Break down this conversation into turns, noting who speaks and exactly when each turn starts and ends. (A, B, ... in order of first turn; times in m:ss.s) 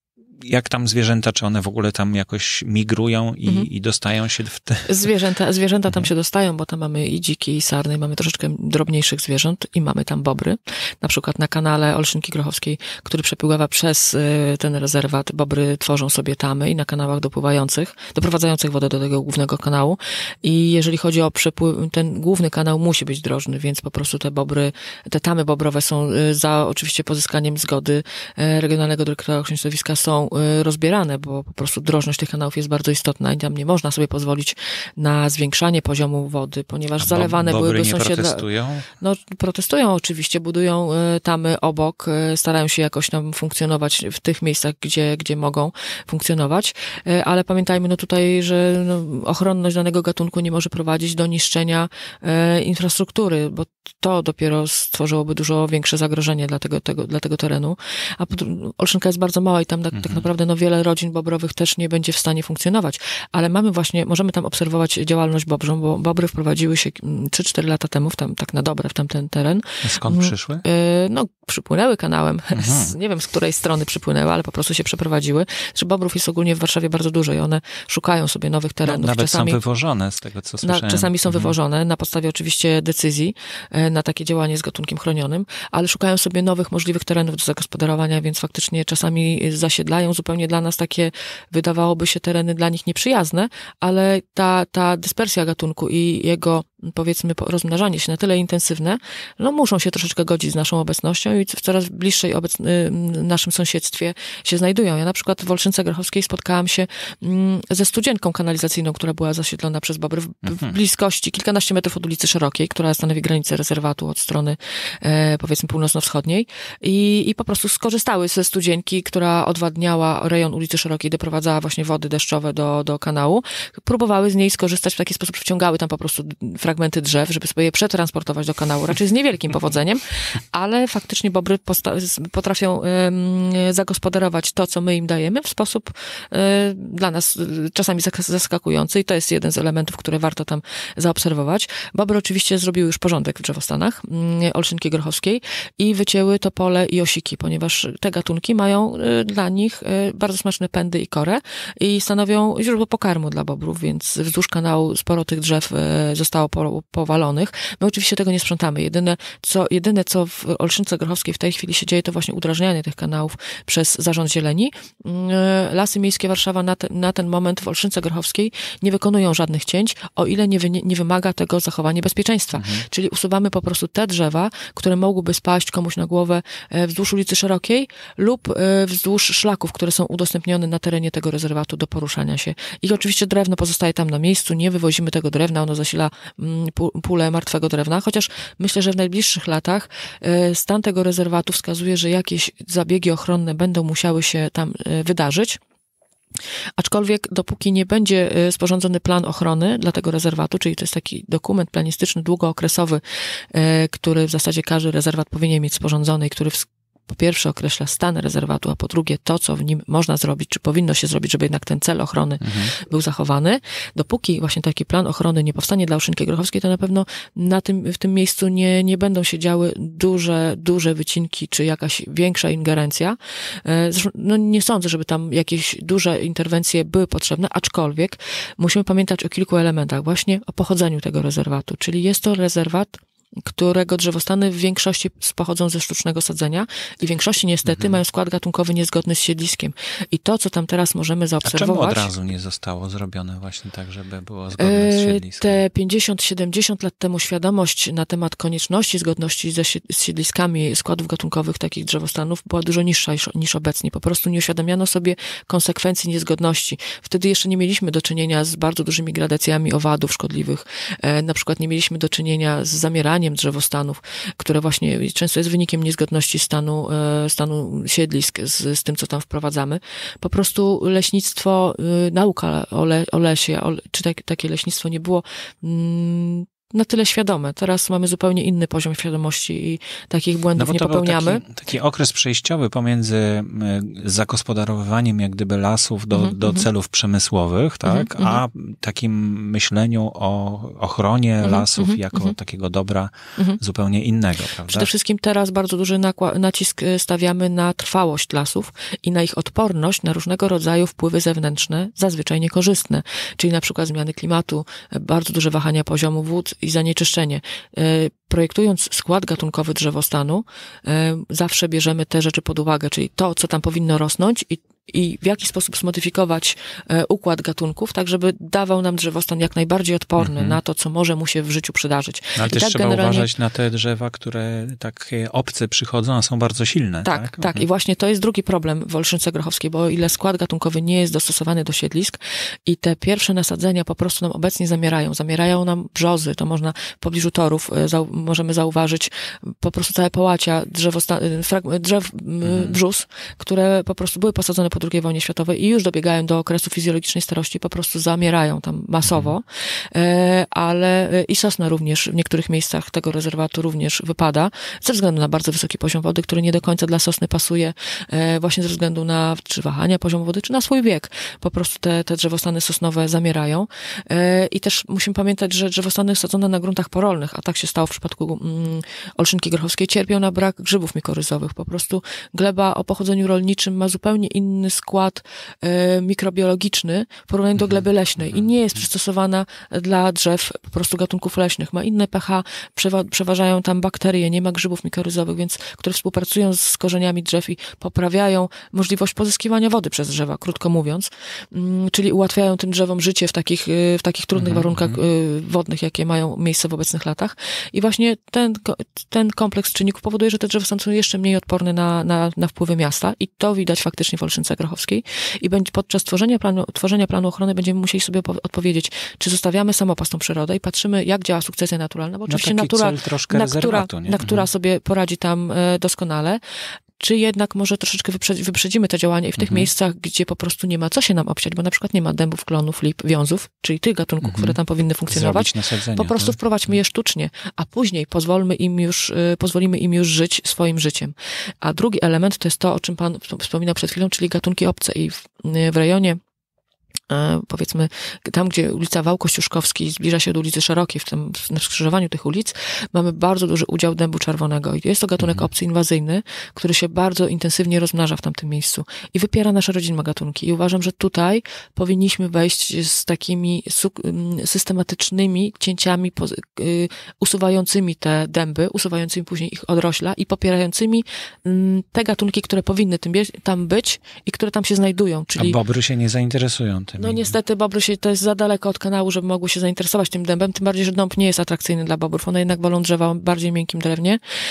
0:00.4-0:05.0 A
0:04.9-1:19.6 B
0:37.0-0:38.9 A
0:59.9-1:00.2 A
1:09.8-1:10.6 A
1:12.5-1:12.9 A
1:18.8-1:21.5 A
1:20.6-3:15.6 B
1:50.4-1:50.7 A
2:52.6-2:52.8 A
3:16.8-4:02.1 B
3:32.4-3:32.7 A
3:57.7-3:58.0 A
4:01.4-4:05.6 A
4:04.6-4:41.4 B
4:40.6-4:54.9 A
4:46.1-4:46.6 B
4:47.8-4:48.4 B
4:51.4-4:52.3 B
4:54.7-5:23.3 B
5:20.2-5:20.6 A
5:22.4-5:27.6 A
5:27.0-6:56.4 B
5:42.4-5:42.8 A
5:49.0-5:49.3 A
6:17.6-6:18.4 A
6:34.4-6:35.0 A
6:52.3-6:54.4 A
6:57.0-7:16.2 B
6:59.4-6:59.7 A
7:04.2-7:06.4 A
7:17.1-7:45.6 B
7:25.2-7:25.4 A
7:45.4-7:47.3 A
7:47.0-7:54.2 B